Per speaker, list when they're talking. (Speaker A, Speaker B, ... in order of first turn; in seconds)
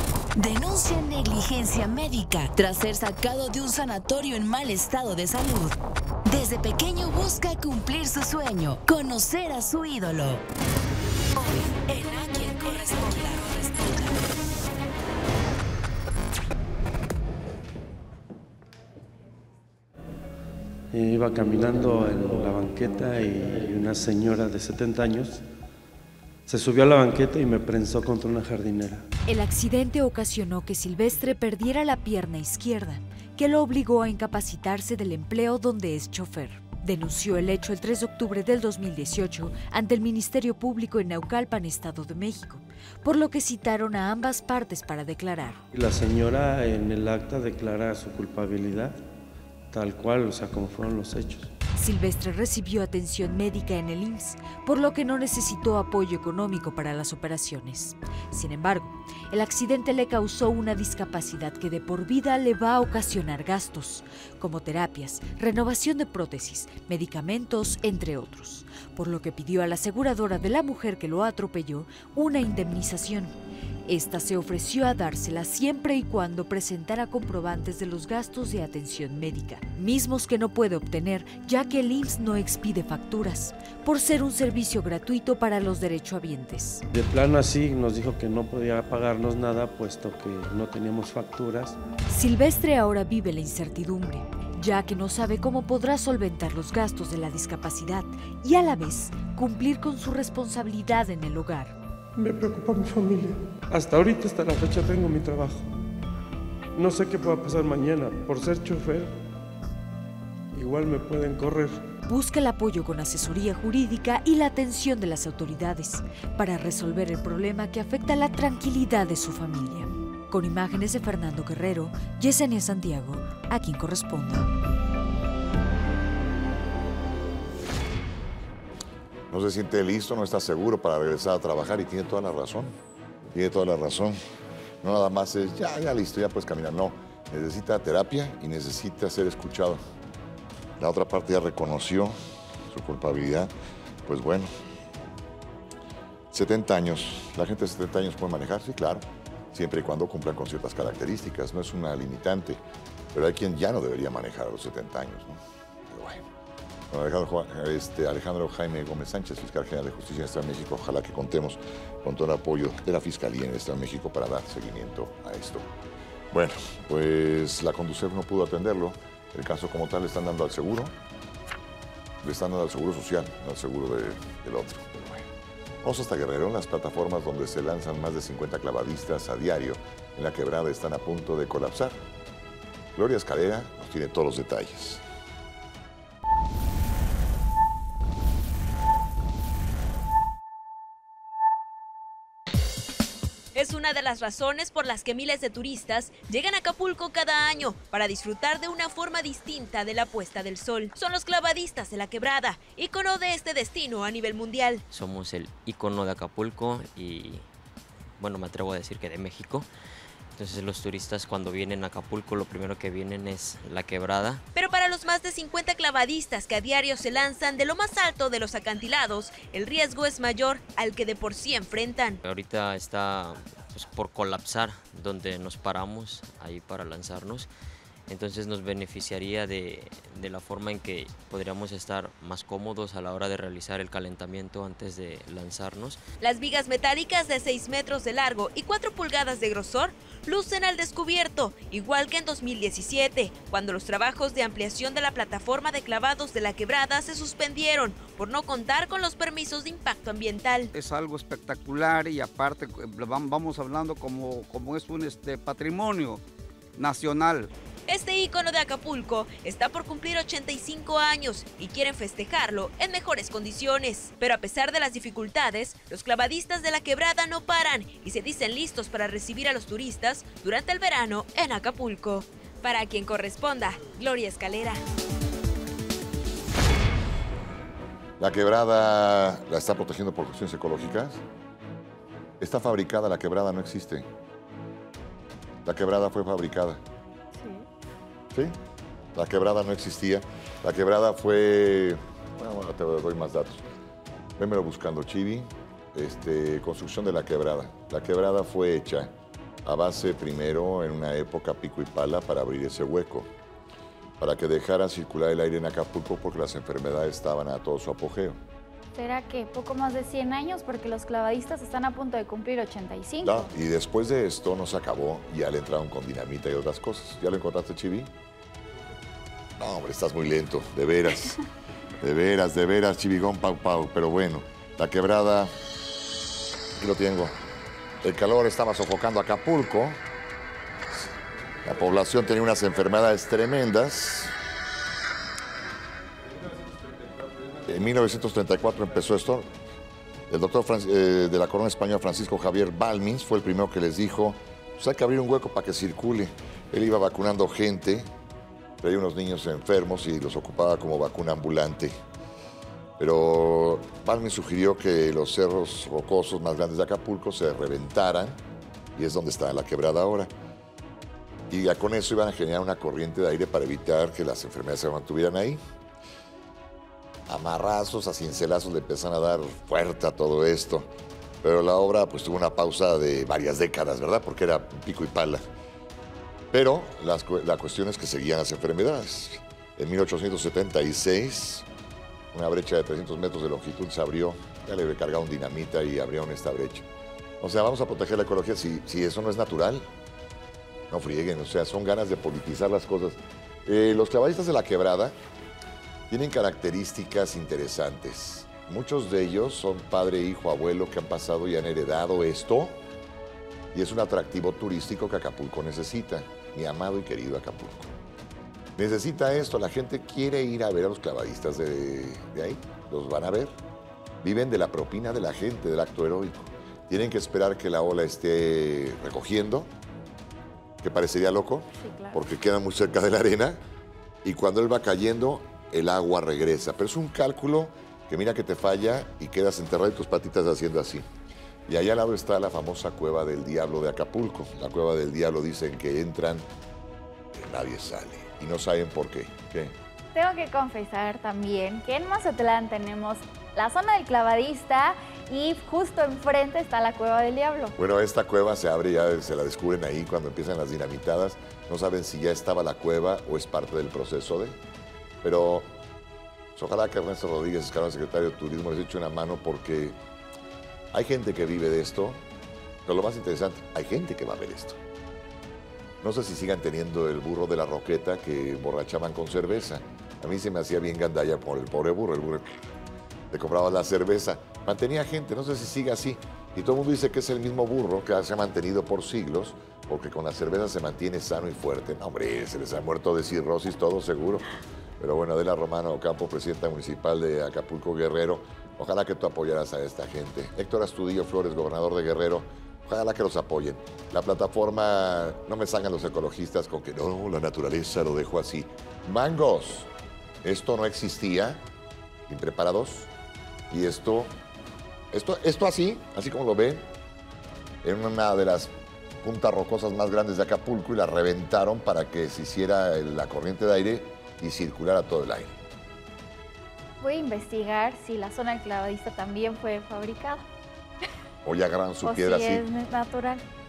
Speaker A: 0.3-10.4, 11.3-14.2
Speaker B: 20.9-25.4, 26.5-29.1, 45.7-49.0, 49.7-51.5, 86.9-91.8, 102.2-105.7, 106.7-109.2, 110.5-111.9
Speaker C: 29.3-45.6, 51.7-86.8, 92.1-101.7, 112.0-124.5
Speaker D: 129.3-132.7, 133.3-134.2, 134.8-139.8, 140.8-142.1, 142.7-143.5, 144.1-144.5, 146.3-152.6, 153.1-156.2, 156.9-165.7, 166.3-170.9, 172.2-175.3, 175.8-182.0, 182.9-185.0, 278.2-281.2, 282.4-284.1, 285.6-286.8, 288.3-288.6, 289.1-293.6, 294.4-299.1, 299.6-303.3, 304.2-308.4, 313.2-318.1, 319.6-321.4, 322.0-325.5, 326.8-327.4, 328.0-330.0, 331.6-334.3, 337.6-339.5, 340.3-348.1, 348.8-352.0, 353.0-358.4, 358.9-360.3, 361.5-365.6, 367.3-370.9, 371.4-375.4, 376.5-381.7, 382.3-386.9, 387.4-389.9, 390.9-395.1, 396.1-402.8, 403.7-407.9, 408.8-413.5, 414.2-419.7, 420.8-423.6, 424.2-431.1, 431.7-436.4, 437.3-439.7, 447.8-454.6, 455.2-455.7, 456.6-460.0, 460.9-462.2, 462.9-464.8, 466.0-472.6, 473.3-484.4, 485.0-499.9, 500.4-501.6, 502.3-503.1, 503.7-504.3, 505.1-506.9, 507.8-515.6, 521.4-522.6
Speaker E: 193.5-204.8, 214.5-222.2, 236.2-250.7, 257.9-274.8
Speaker F: 204.9-207.4, 208.2-209.7, 210.3-214.4, 222.2-227.5, 228.1-236.0
Speaker G: 250.7-256.2, 256.8-257.5
Speaker H: 308.9-313.5, 421.8-422.2, 440.1-447.7, 517.0-520.4, 522.0-523.4